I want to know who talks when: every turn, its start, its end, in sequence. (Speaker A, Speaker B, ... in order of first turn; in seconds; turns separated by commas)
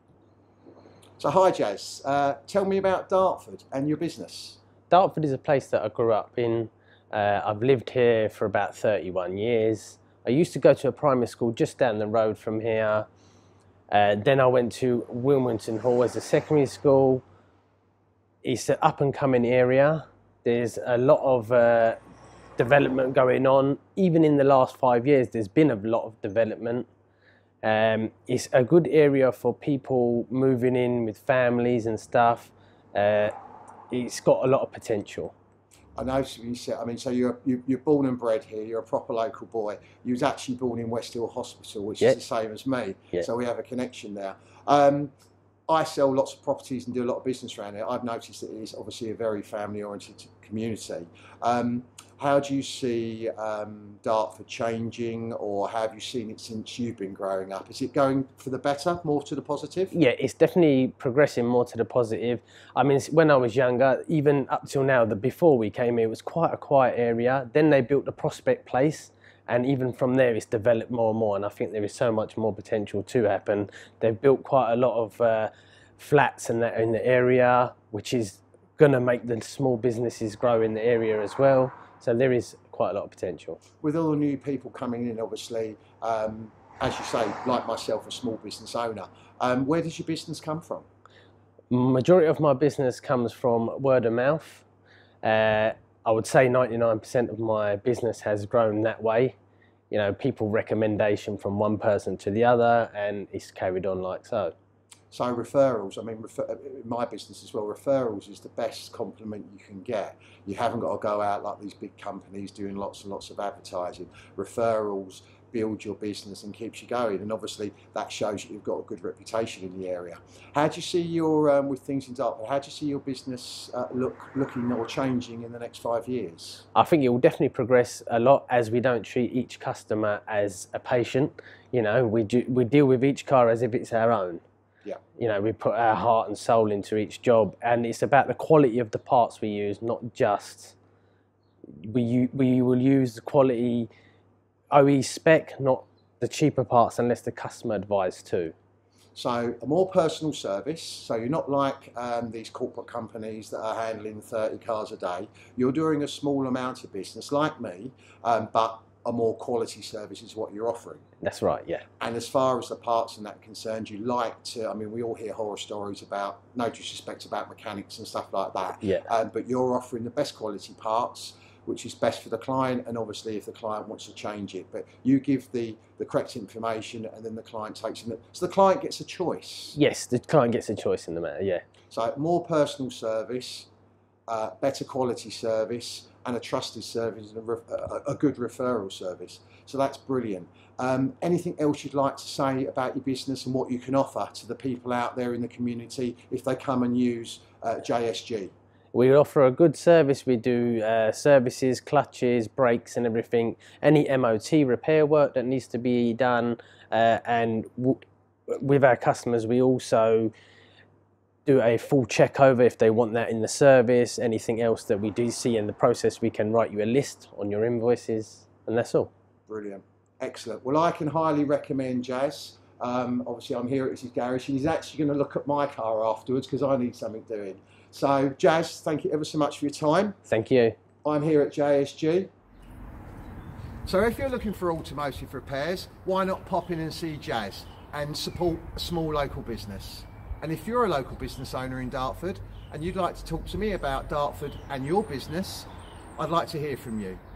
Speaker A: 1.2-4.6, Speaker B: 4.9-13.1, Speaker B: 13.9-17.2, Speaker B: 18.4-22.0, Speaker B: 22.6-26.9, Speaker B: 27.6-33.3, Speaker B: 33.9-35.3, Speaker A: 36.0-45.1, Speaker A: 45.7-59.9, Speaker B: 59.9-83.6, Speaker A: 83.8-90.9, Speaker B: 91.7-94.6, Speaker B: 95.2-99.4, Speaker B: 99.9-104.5, Speaker A: 105.1-126.7, Speaker B: 126.8-134.4, Speaker B: 135.2-140.8, Speaker B: 141.8-143.9, Speaker B: 144.7-148.5, Speaker A: 149.2-161.0, Speaker B: 161.2-161.8, Speaker A: 162.0-179.8, Speaker B: 179.8-181.6, Speaker A: 181.9-183.7, Speaker A: 184.3-198.5, Speaker B: 198.9-210.3, Speaker B: 211.5-219.1, Speaker A: 219.5-230.2, Speaker B: 230.3-230.8, Speaker A: 231.0-232.3, Speaker A: 233.8-247.2